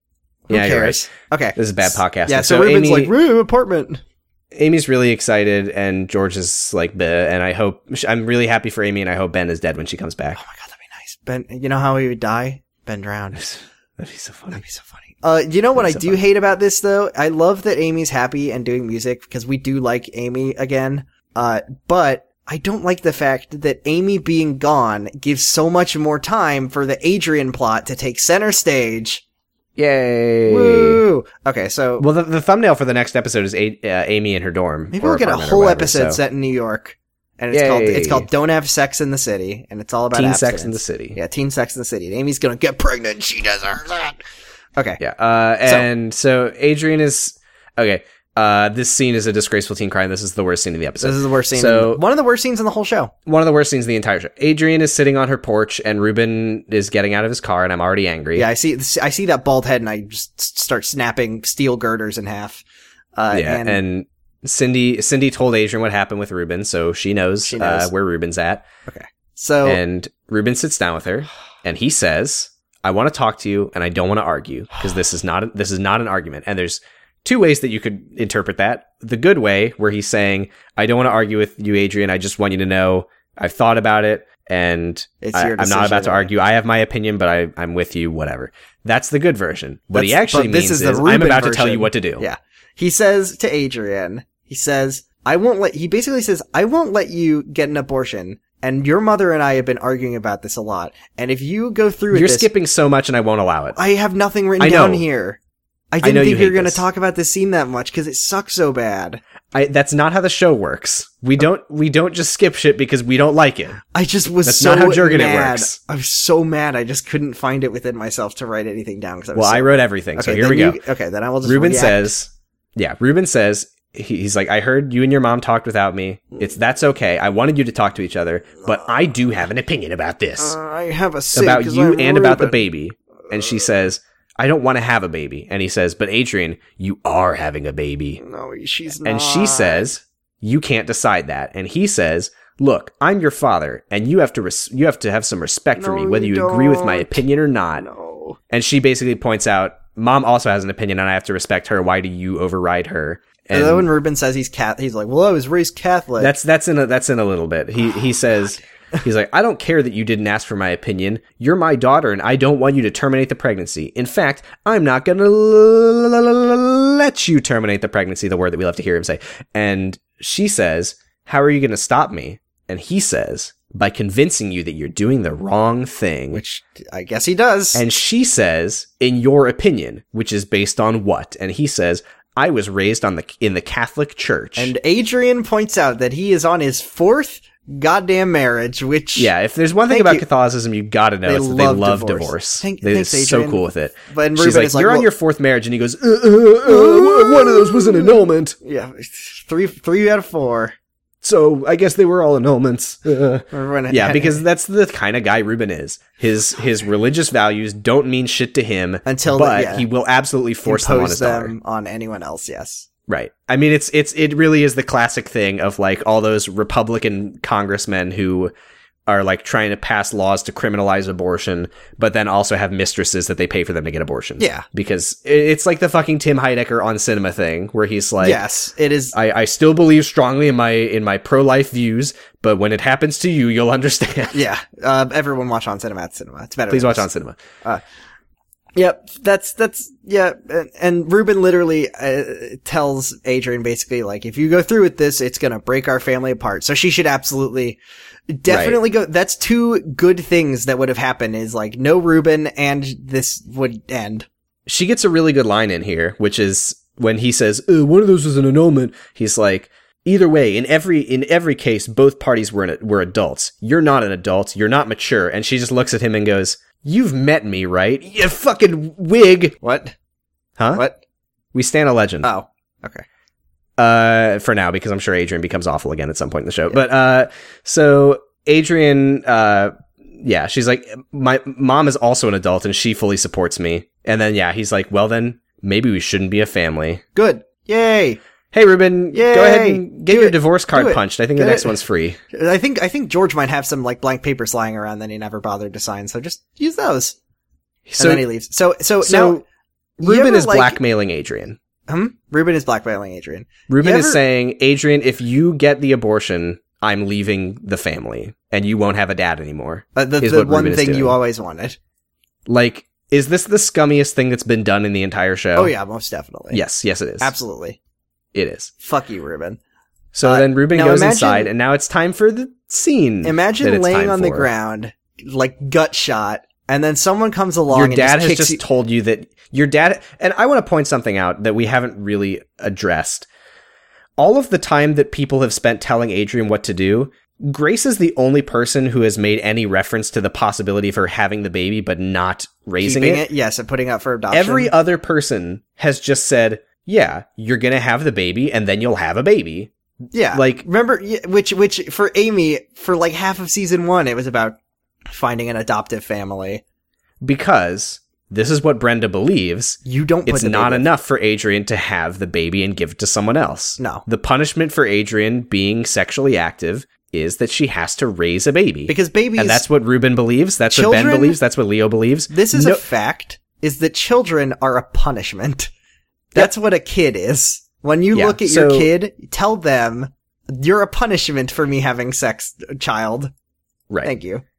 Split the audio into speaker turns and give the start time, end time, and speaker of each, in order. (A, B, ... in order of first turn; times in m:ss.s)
0:00.5-0:04.0 A
0:00.5-0:03.1 B
0:04.5-0:10.4 B
0:10.4-0:13.5 A
0:13.4-0:14.6 B
0:14.5-0:29.2 A
0:15.8-0:16.2 B
0:29.8-0:31.0 B
0:30.5-0:32.1 A
0:32.0-0:36.2 B
0:34.9-0:44.2 A
0:37.5-0:38.3 B
0:40.1-0:41.2 B
0:45.0-0:52.0 B
0:51.0-0:53.1 A
0:53.3-0:58.5 B
0:58.4-1:02.6 A
1:03.2-1:03.8 A
1:03.3-1:08.7 B
1:07.4-1:07.9 A
1:08.9-1:09.8 A
1:09.6-1:32.2 B
1:25.2-1:26.3 A
1:29.9-1:42.5 A
1:42.1-1:43.8 B
1:43.8-1:45.4 A
1:44.6-1:45.0 B
1:45.9-1:49.2 A
1:46.0-1:46.8 B
1:49.5-1:53.8 B
1:53.9-2:02.1 A
1:54.4-1:55.8 B
1:59.4-2:00.8 B
2:01.4-2:10.6 B
2:10.4-2:12.6 A
2:11.3-2:18.2 B
2:18.2-2:19.9 A
2:19.0-2:27.9 B
2:25.8-2:27.2 A
2:27.8-2:28.4 A
2:28.5-2:33.9 B
2:33.5-2:36.3 A
2:36.2-2:56.4 B
2:56.3-2:57.8 A
2:57.7-3:04.7 B
3:04.6-3:09.3 A
3:09.2-3:18.6 B
3:09.9-3:10.2 A
3:11.2-3:15.1 A
3:16.6-3:20.8 A
3:21.2-3:31.5 B
3:23.5-3:24.4 A
3:29.1-3:29.9 A
3:30.6-3:32.9 A
3:33.1-3:38.5 B
3:39.1-3:48.4 B
3:44.4-3:44.6 A
3:48.2-3:49.2 A
3:49.1-3:54.4 B
3:54.3-3:57.1 A
3:56.7-3:57.4 B
3:58.8-4:07.8 A
4:08.3-4:14.3 A
4:08.5-4:08.8 B
4:14.7-4:29.6 B
4:29.6-4:29.9 A
4:30.7-4:31.0 A
4:31.5-4:32.3 B
4:32.2-4:33.0 A
4:33.8-4:47.0 B
4:47.2-4:48.2 A
4:48.5-4:52.2 B
4:49.1-4:51.8 A
4:52.3-4:57.2 A
4:57.9-4:58.3 B
4:58.0-4:59.4 A
4:59.0-4:59.4 B
5:00.0-5:01.6 B
5:00.0-5:00.8 A
5:01.9-5:04.2 A
5:03.7-5:11.2 B
5:10.0-5:11.8 A
5:12.5-5:15.7 B
5:15.6-5:16.6 A
5:16.5-5:17.3 B
5:17.2-5:17.8 A
5:18.3-5:18.7 B
5:18.8-5:19.6 A
5:20.1-5:24.5 B
5:20.2-5:21.5 A
5:23.2-5:28.6 A
5:27.7-5:33.3 B
5:34.2-5:43.3 B
5:42.8-5:44.7 A
5:44.3-5:49.7 B
5:50.1-5:54.6 A
5:50.3-5:50.6 B
5:55.1-5:56.6 A
5:57.2-6:12.8 B
5:59.8-6:00.9 A
6:03.8-6:04.0 A
6:08.9-6:09.6 A
6:10.7-6:11.4 A
6:12.3-6:15.7 A
6:16.3-6:23.3 A
6:18.1-6:18.9 B
6:24.0-6:24.4 A